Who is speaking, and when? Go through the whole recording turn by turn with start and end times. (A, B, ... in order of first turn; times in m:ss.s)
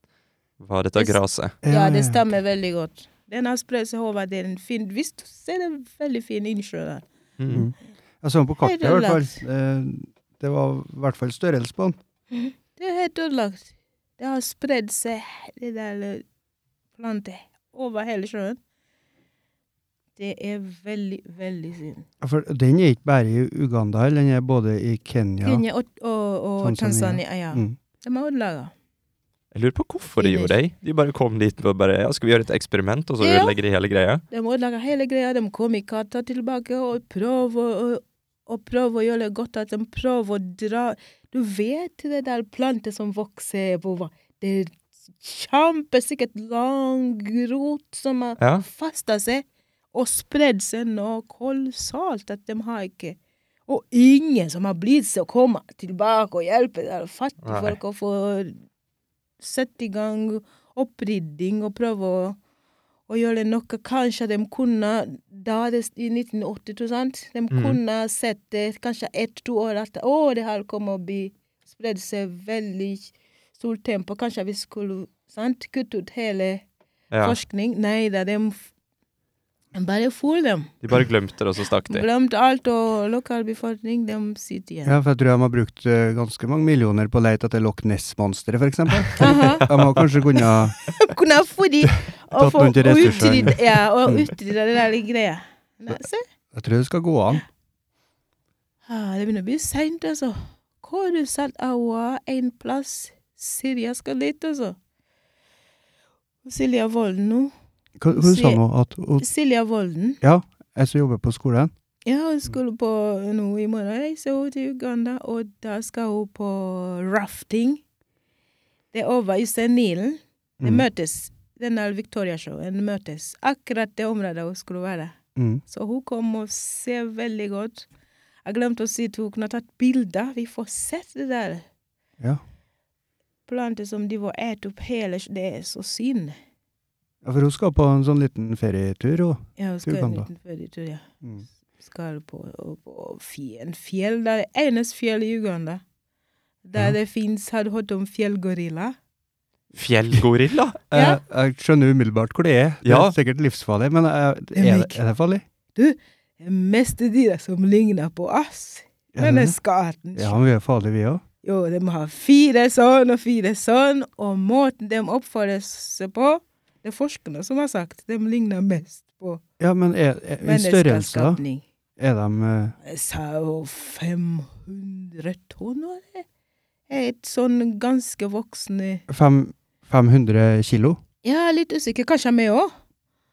0:00.6-0:01.6 A
0:01.0-0:07.0 B
0:01.6-0:02.2 C
0:07.4-0:07.7 A
0:07.5-0:12.0 C
0:08.6-0:09.4 B
0:12.3-0:16.2 B
0:17.0-0:18.6 B
0:20.2-0:22.1 B
0:22.2-0:25.6 C
0:25.4-0:28.7 B
0:26.6-0:27.8 C
0:29.5-0:34.2 A
0:30.2-0:30.5 B
0:33.2-0:33.6 B
0:34.3-0:58.5 B
0:48.4-0:48.6 A
0:57.4-0:57.8 A
0:59.4-1:02.4 B
1:03.1-1:16.6 B
1:07.5-1:07.8 A
1:17.1-1:17.4 A
1:17.2-1:18.7 B
1:19.7-1:20.8 B
1:20.8-1:22.1 A
1:21.9-1:25.0 B
1:24.8-1:30.8 C
1:29.2-1:29.7 B
1:29.3-1:30.0 A
1:30.4-1:36.2 B
1:32.4-1:33.6 C
1:33.0-1:33.5 A
1:36.5-1:37.4 C
1:38.9-1:44.8 B
1:46.4-1:47.5 B
1:48.0-1:49.3 C
1:48.1-1:48.6 B
1:49.2-1:50.2 B
1:50.2-1:51.7 C
1:52.1-1:57.8 B
1:58.9-2:05.2 B
2:00.6-2:00.8 C
2:05.4-2:05.6 C
2:05.7-2:07.9 B
2:08.4-2:11.6 B
2:13.5-2:16.4 B
2:17.2-2:20.3 C
2:19.6-2:21.1 B
2:21.8-2:25.8 B
2:26.6-2:29.0 B
2:29.8-2:30.8 A
2:30.9-2:35.4 C
2:30.9-2:31.2 B
2:32.8-2:33.1 A
2:34.6-2:35.0 B
2:35.8-2:40.4 B
2:39.1-2:39.6 C
2:40.2-2:41.2 C
2:41.4-2:49.4 B
2:49.6-2:51.4 C
2:50.4-2:51.6 B
2:52.0-2:52.8 C
2:52.8-2:56.3 B
2:56.9-2:59.0 B
2:59.1-3:01.0 C
3:01.2-3:02.7 B